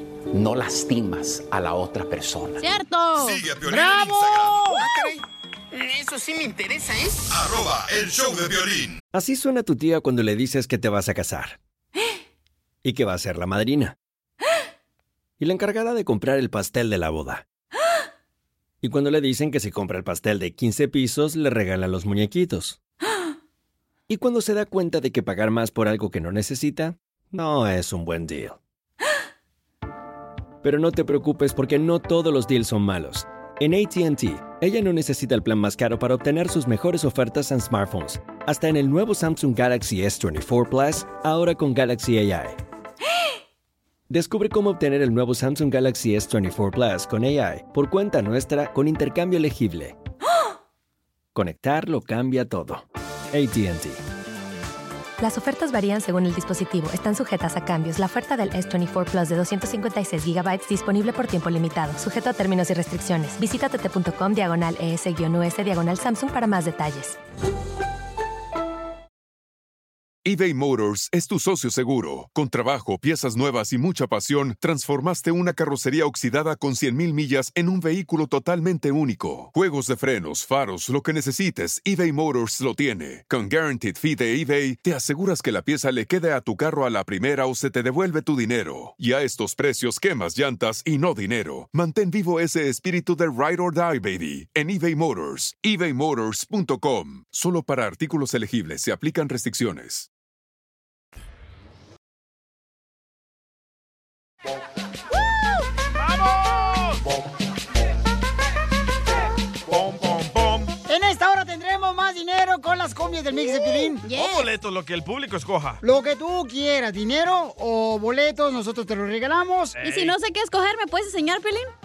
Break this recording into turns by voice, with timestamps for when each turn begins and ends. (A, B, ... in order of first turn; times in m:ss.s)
0:00.3-0:02.6 A
0:02.6-0:03.4 B
0:03.1-0:04.8 C
0:03.6-0:04.9 D
0:07.3-0:09.0 C
0:09.1-0:11.6 E
0:12.8-0:13.9 E
0:15.4-0:17.4 E
0:18.8-0:22.8 E
0:24.1-0:28.6 E
0:30.6-0:42.6 E
0:44.1-0:50.0 E
0:51.3-0:54.0 E
0:55.2-1:07.2 F
1:10.2-1:40.1 G
1:46.0-1:47.0 H
1:49.7-1:50.7 H
1:50.9-1:54.0 D
1:54.0-1:54.4 B
1:54.1-1:55.8 H
1:55.8-1:59.8 D
1:59.8-2:00.2 H
1:59.8-2:01.7 B